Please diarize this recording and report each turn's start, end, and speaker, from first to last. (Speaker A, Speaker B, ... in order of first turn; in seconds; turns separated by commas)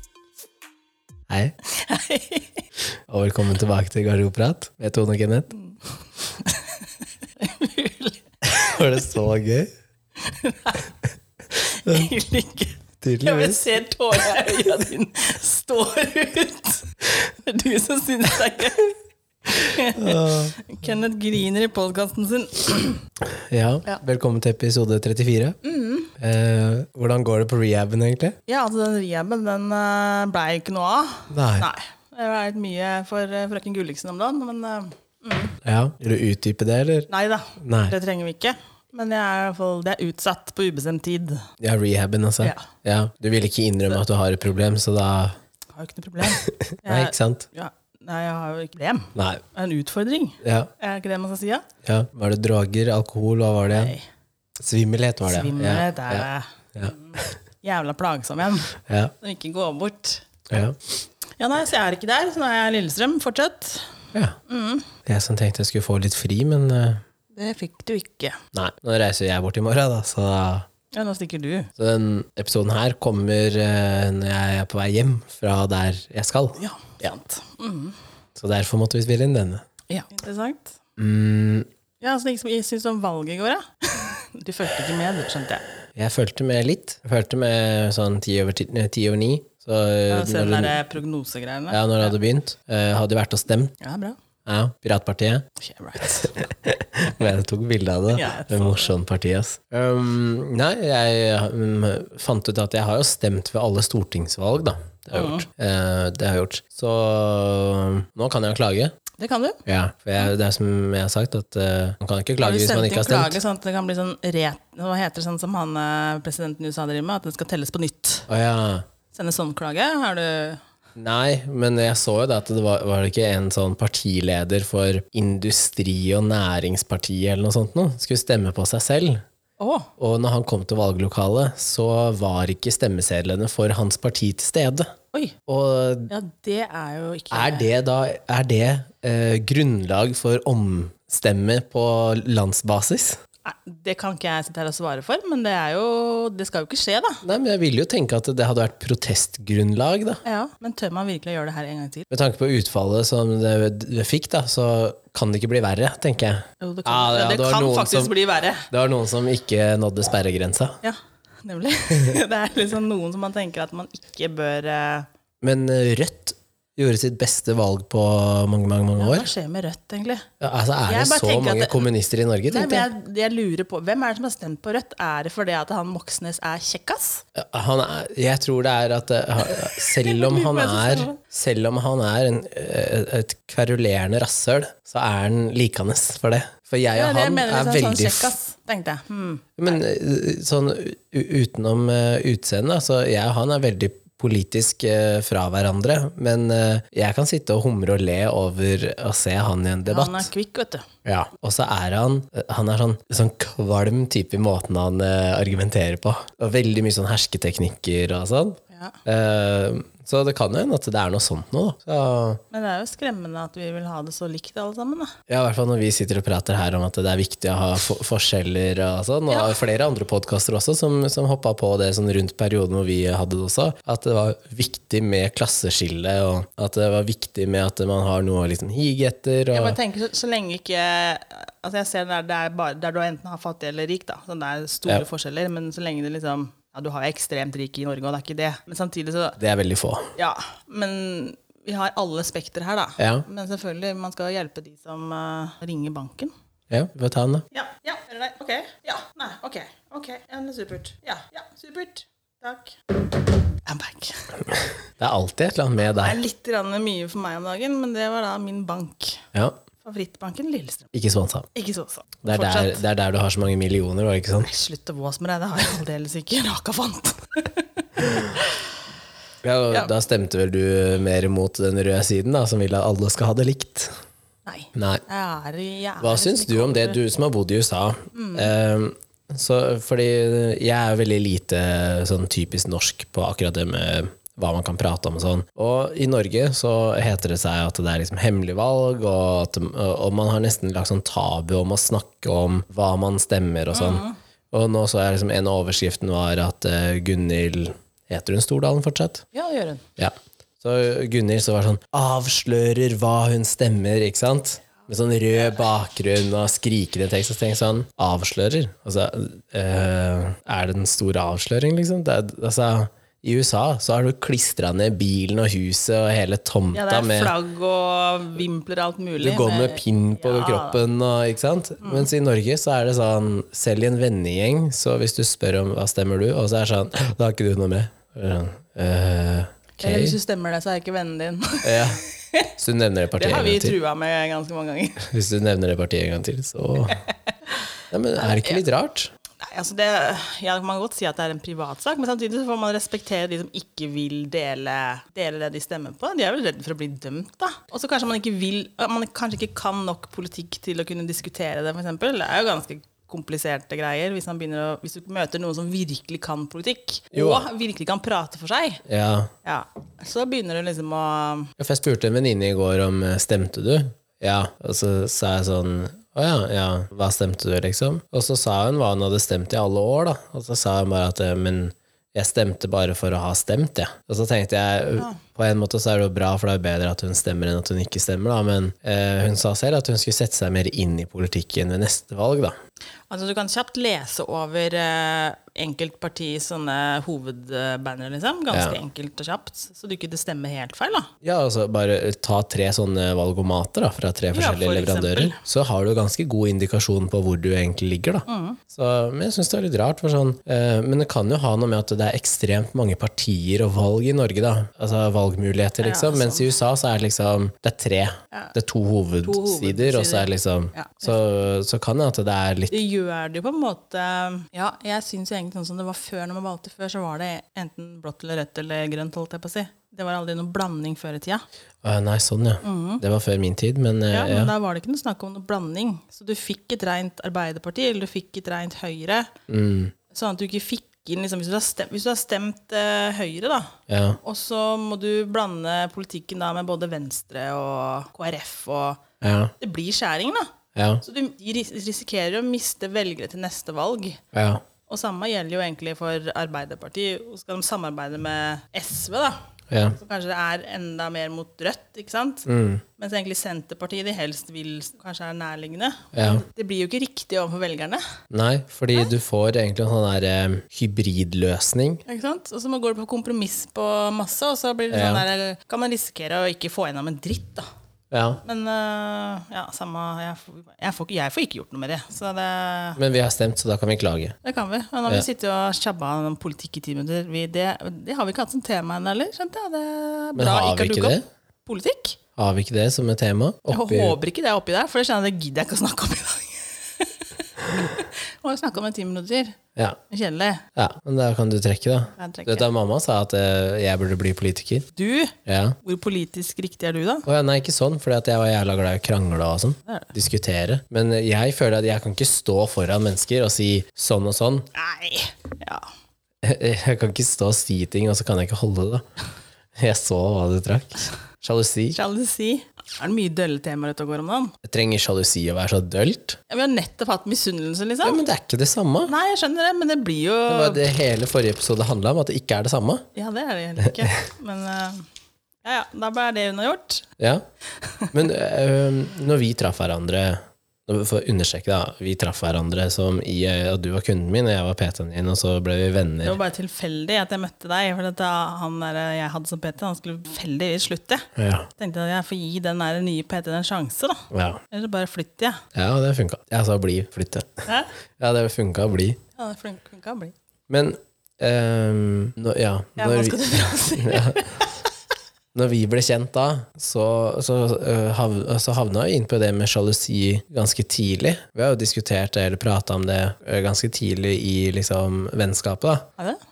Speaker A: 1.3-1.6, Speaker B: 1.6-2.6, Speaker A: 3.1-5.5, Speaker B: 6.3-9.1, Speaker A: 8.4-9.7, Speaker B: 10.2-10.9, Speaker B: 11.6-23.1, Speaker A: 13.0-13.7, Speaker A: 19.8-20.6, Speaker A: 23.2-25.6, Speaker B: 25.6-26.1, Speaker A: 26.2-28.4, Speaker B: 28.5-35.5, Speaker A: 31.3-31.7, Speaker A: 35.6-38.0, Speaker B: 37.1-41.5, Speaker A: 41.6-45.4, Speaker B: 42.4-42.7, Speaker B: 45.8-51.7, Speaker A: 46.4-47.5, Speaker A: 49.1-49.4, Speaker A: 50.4-50.7, Speaker A: 51.8-53.9, Speaker B: 53.7-54.1, Speaker A: 54.6-57.3, Speaker B: 55.3-60.3, Speaker A: 58.9-59.1, Speaker A: 60.5-60.8, Speaker B: 61.4-63.9, Speaker B: 64.5-64.9, Speaker A: 65.1-67.0, Speaker B: 67.4-68.4, Speaker A: 68.5-70.7, Speaker B: 70.9-71.7, Speaker A: 71.8-77.1, Speaker B: 76.6-78.0, Speaker A: 78.4-79.6, Speaker B: 79.9-80.8, Speaker A: 81.0-81.7, Speaker B: 82.0-85.6, Speaker A: 86.0-90.8, Speaker B: 90.1-92.1, Speaker A: 91.7-93.7, Speaker B: 93.8-94.2, Speaker A: 94.5-95.5, Speaker B: 95.6-96.5, Speaker A: 96.0-108.9, Speaker B: 98.1-98.9, Speaker B: 105.1-105.5, Speaker B: 109.2-109.6, Speaker A: 109.7-113.4, Speaker B: 112.4-118.3, Speaker A: 118.3-118.9, Speaker B: 119.1-120.6, Speaker A: 121.0-129.2, Speaker B: 129.6-129.9, Speaker A: 130.0-134.9, Speaker A: 135.5-136.1, Speaker B: 136.1-137.7, Speaker A: 137.3-143.2, Speaker B: 143.4-147.2, Speaker A: 147.2-150.2, Speaker B: 150.2-152.1, Speaker A: 152.1-158.1, Speaker B: 156.6-158.7, Speaker A: 158.7-160.8, Speaker B: 160.8-165.1, Speaker A: 161.9-162.2, Speaker A: 165.4-169.3, Speaker B: 169.0-170.3, Speaker A: 170.4-172.9, Speaker B: 170.9-171.9, Speaker B: 172.5-177.2, Speaker A: 177.3-188.4, Speaker B: 179.5-181.2, Speaker B: 186.9-189.6, Speaker A: 189.6-200.3, Speaker B: 199.9-200.9, Speaker A: 201.1-212.4, Speaker B: 212.5-215.2, Speaker A: 215.3-229.8, Speaker B: 219.3-219.6, Speaker B: 229.5-239.4, Speaker A: 239.4-240.1, Speaker B: 240.2-246.3, Speaker A: 243.0-243.2, Speaker A: 246.7-247.5, Speaker B: 247.5-252.8, Speaker B: 253.7-254.3, Speaker A: 255.0-256.2, Speaker B: 256.0-259.3, Speaker B: 259.8-260.9, Speaker A: 260.9-261.5, Speaker B: 261.6-262.8, Speaker A: 262.2-264.5, Speaker B: 264.4-268.7, Speaker A: 269.4-273.9, Speaker B: 274.5-277.0, Speaker A: 274.8-275.0, Speaker A: 276.0-299.3, Speaker B: 278.1-278.5, Speaker B: 293.7-294.2, Speaker B: 299.3-299.8, Speaker A: 300.0-317.3, Speaker B: 316.7-320.8, Speaker A: 319.2-330.2, Speaker B: 321.8-322.1, Speaker B: 329.8-332.5, Speaker A: 331.6-332.0, Speaker A: 332.6-333.8, Speaker B: 333.2-335.1, Speaker A: 335.0-337.0, Speaker B: 337.0-337.6, Speaker A: 337.9-339.1, Speaker B: 338.2-338.6, Speaker B: 339.4-358.8, Speaker A: 357.1-357.5, Speaker A: 358.9-359.3, Speaker B: 359.4-361.5, Speaker A: 361.6-382.6, Speaker B: 383.1-391.1, Speaker A: 388.5-388.8, Speaker A: 391.2-412.7, Speaker B: 394.3-395.4, Speaker B: 398.3-398.6, Speaker B: 405.8-406.6, Speaker B: 409.2-411.1, Speaker B: 412.7-421.4, Speaker A: 421.8-424.5, Speaker B: 422.6-423.0, Speaker B: 424.1-429.3, Speaker A: 429.5-429.9, Speaker B: 430.1-439.0, Speaker A: 433.9-434.2, Speaker A: 439.2-439.5, Speaker B: 439.6-444.2, Speaker A: 440.8-441.0, Speaker A: 444.3-444.6, Speaker B: 444.9-449.4, Speaker A: 449.7-450.0, Speaker B: 449.9-458.0, Speaker A: 452.5-452.8, Speaker A: 456.1-456.4, Speaker A: 458.3-462.0, Speaker B: 462.1-467.7, Speaker A: 464.9-465.2, Speaker A: 468.1-468.4, Speaker B: 468.4-473.0, Speaker A: 473.0-474.4, Speaker B: 474.4-482.2, Speaker A: 480.4-481.2, Speaker A: 482.4-484.2, Speaker B: 483.7-489.6, Speaker B: 490.1-490.6, Speaker A: 490.8-494.9, Speaker B: 492.2-492.7, Speaker B: 495.0-497.3, Speaker A: 495.5-495.8, Speaker A: 497.3-504.7, Speaker B: 499.9-500.1, Speaker B: 504.7-505.9, Speaker A: 506.4-509.0, Speaker A: 509.8-512.0, Speaker B: 511.9-514.5, Speaker A: 514.6-516.4, Speaker B: 516.5-518.2, Speaker A: 518.0-519.1, Speaker B: 519.0-520.8, Speaker A: 520.5-523.0, Speaker B: 523.1-525.1, Speaker B: 525.6-527.1, Speaker A: 527.2-527.4, Speaker B: 527.8-528.1, Speaker A: 528.1-536.4, Speaker B: 536.2-545.6, Speaker A: 541.4-541.7, Speaker A: 544.3-544.6, Speaker A: 545.7-547.7, Speaker A: 548.2-549.2, Speaker B: 549.4-550.3, Speaker A: 550.7-554.6, Speaker B: 553.0-554.8, Speaker A: 555.5-566.1